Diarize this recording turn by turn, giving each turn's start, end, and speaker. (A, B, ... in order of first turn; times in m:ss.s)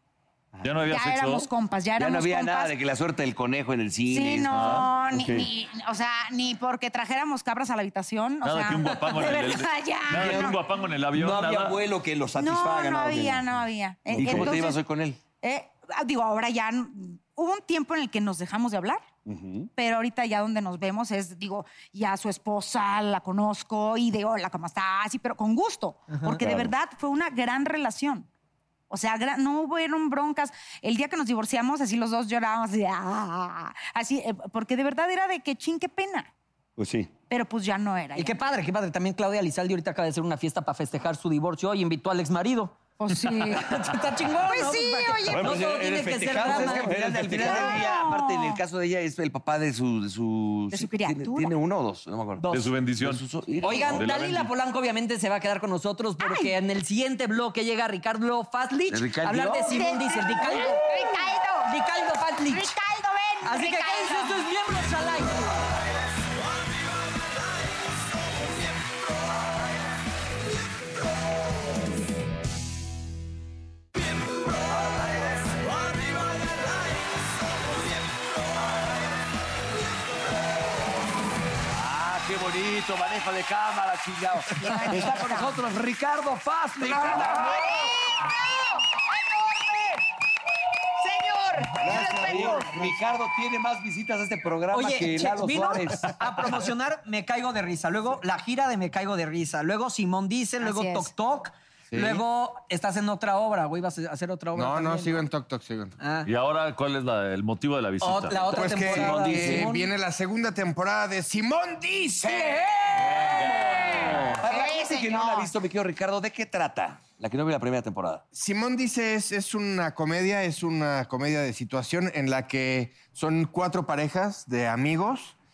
0:00.6-0:01.5 A
0:00.8-0:02.7 B
0:02.0-0:04.9 C
0:04.1-0:10.6 B
0:04.5-0:04.9 A
0:05.1-0:05.5 D
0:08.4-0:11.8 A
0:10.1-0:10.5 D
0:11.1-0:13.4 D
0:12.3-0:14.8 B
0:14.1-0:14.6 D
0:14.1-0:15.2 C
0:15.4-0:19.0 B
0:19.2-0:19.7 D
0:19.8-0:28.3 B
0:26.1-0:26.4 E
0:26.4-0:26.7 D
0:28.9-0:36.3 B
0:36.8-0:37.1 D
0:37.3-0:38.4 B
0:38.2-0:47.8 E
0:43.0-0:43.7 B
0:44.4-0:45.6 B
0:45.3-0:47.9 D
0:45.3-0:54.0 C
0:47.4-0:48.6 B
0:50.7-0:51.5 B
0:52.4-0:52.7 E
0:52.5-0:53.2 A
0:53.6-1:00.9 E
0:53.7-0:54.0 B
0:53.9-0:54.5 A
0:56.2-0:56.5 B
0:58.9-1:00.1 C
0:59.6-1:01.7 B
1:01.7-1:02.7 E
1:02.5-1:04.4 B
1:03.4-1:05.6 E
1:14.8-1:16.9 C
1:21.7-1:27.7 C
1:24.6-1:25.5 B
1:26.8-1:28.3 B
1:29.0-1:30.0 B
1:31.0-1:32.7 B
1:31.8-1:32.9 F
1:31.9-1:36.2 C
1:34.7-1:45.2 E
1:40.6-1:41.1 B
1:41.9-1:42.2 F
1:44.5-1:46.0 F
1:46.0-1:46.3 E
1:46.2-1:48.5 A
1:48.0-1:49.9 E
1:48.5-1:49.8 C
1:48.5-1:52.6 F
1:52.4-1:53.1 B
1:52.9-1:58.2 C
1:53.4-1:54.3 A
1:54.4-1:55.5 B
1:58.3-2:05.4 F